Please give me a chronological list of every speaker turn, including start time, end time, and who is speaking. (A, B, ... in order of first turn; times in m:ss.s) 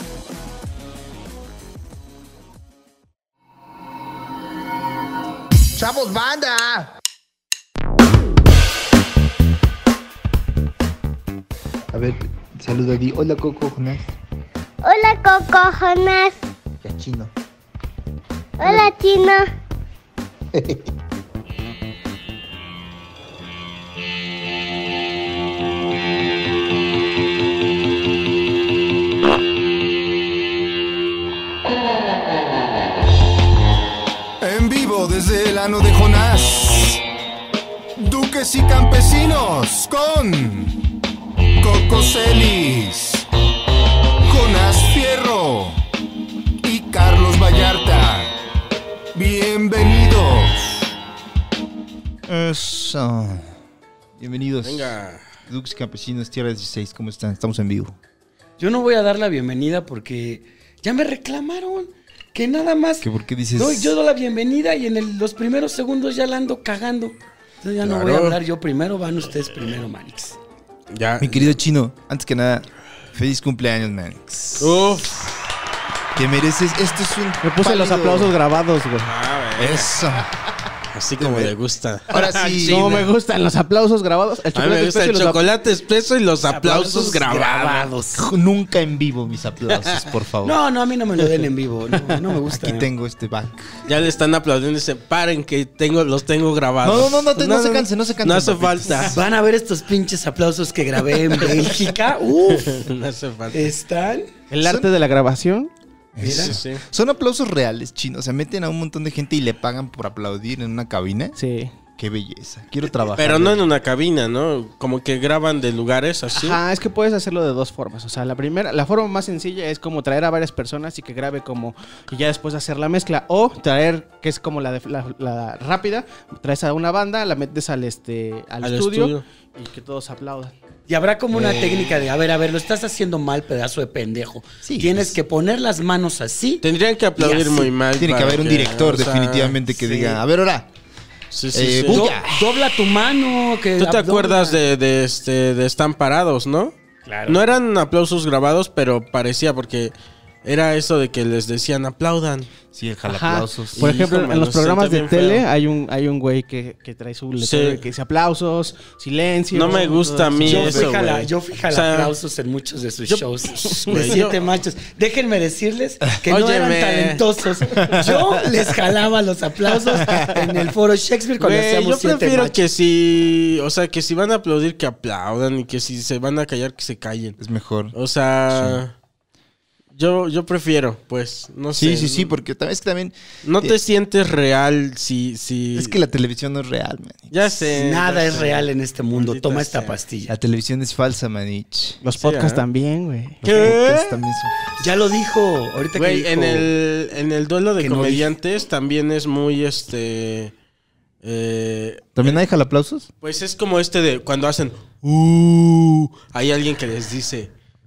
0:05.8-0:06.8 A
0:11.9-0:14.1 A
0:14.8-0:16.4 B
0:16.8-0:17.3 A
0:18.6-0:19.5 B
0:20.5-0:20.8 A
0:34.4-0:37.0 C
0:38.0-0:40.8 C
0:41.6-0:43.3 C
0:44.2-0:45.8 C
0:46.6-0:48.3 C
0:49.1-0:50.9 C
0:52.3-0:53.5 A
0:54.2-0:54.9 A
0:54.6-0:55.2 D
0:55.4-0:58.0 A
0:58.6-1:10.4 E
1:03.0-1:03.9 A
1:07.8-1:08.4 D
1:10.9-1:11.5 D
1:11.2-1:14.8 A
1:14.6-1:15.3 D
1:16.1-1:18.3 A
1:17.4-1:19.1 F
1:19.0-1:20.0 D
1:19.6-1:20.3 A
1:20.9-1:23.1 D
1:21.2-1:21.5 A
1:22.1-1:23.0 A
1:22.6-1:25.4 F
1:24.5-1:27.9 D
1:26.5-1:28.2 E
1:28.1-1:30.6 A
1:29.7-1:30.0 D
1:30.4-1:32.9 E
1:32.4-1:33.7 A
1:33.8-1:39.2 D
1:36.8-1:39.1 A
1:39.0-1:42.8 E
1:41.3-1:41.8 D
1:42.4-1:43.7 D
1:43.5-1:44.3 E
1:44.5-1:45.7 F
1:44.6-1:44.9 A
1:46.1-1:51.4 A
1:46.2-1:46.6 E
1:46.2-1:46.8 D
1:51.4-1:51.7 F
1:52.0-1:53.6 A
1:53.2-1:56.6 D
1:56.3-2:10.5 F
2:08.6-2:09.2 D
2:10.9-2:16.6 E
2:11.3-2:12.1 D
2:14.6-2:15.2 A
2:16.6-2:19.6 D
2:17.2-2:17.7 E
2:18.0-2:20.7 A
2:19.7-2:20.2 E
2:21.3-2:22.1 D
2:21.5-2:22.3 A
2:21.9-2:24.6 E
2:23.8-2:26.7 D
2:27.0-2:27.4 E
2:27.2-2:29.9 D
2:30.4-2:32.5 D
2:32.7-2:33.8 A
2:33.1-2:40.9 F
2:33.8-2:35.4 D
2:37.4-2:37.8 D
2:39.5-2:42.1 D
2:40.5-2:52.6 E
2:43.1-2:44.4 D
2:46.2-2:47.2 D
2:47.8-2:48.4 A
2:50.0-2:50.3 A
2:51.4-2:57.4 D
2:57.4-2:57.9 A
2:57.9-2:58.9 D
2:58.5-2:58.8 A
2:59.9-3:02.3 D
3:01.7-3:03.8 A
3:03.4-3:06.0 D
3:05.7-3:07.4 A
3:07.3-3:10.0 D
3:07.7-3:10.3 E
3:10.3-3:12.0 A
3:12.0-3:13.4 F
3:12.2-3:12.6 D
3:13.4-3:14.5 A
3:13.4-3:14.2 D
3:14.8-3:16.7 E
3:15.9-3:20.5 D
3:17.8-3:18.2 E
3:21.2-3:22.4 D
3:22.2-3:23.1 A
3:23.2-3:27.5 D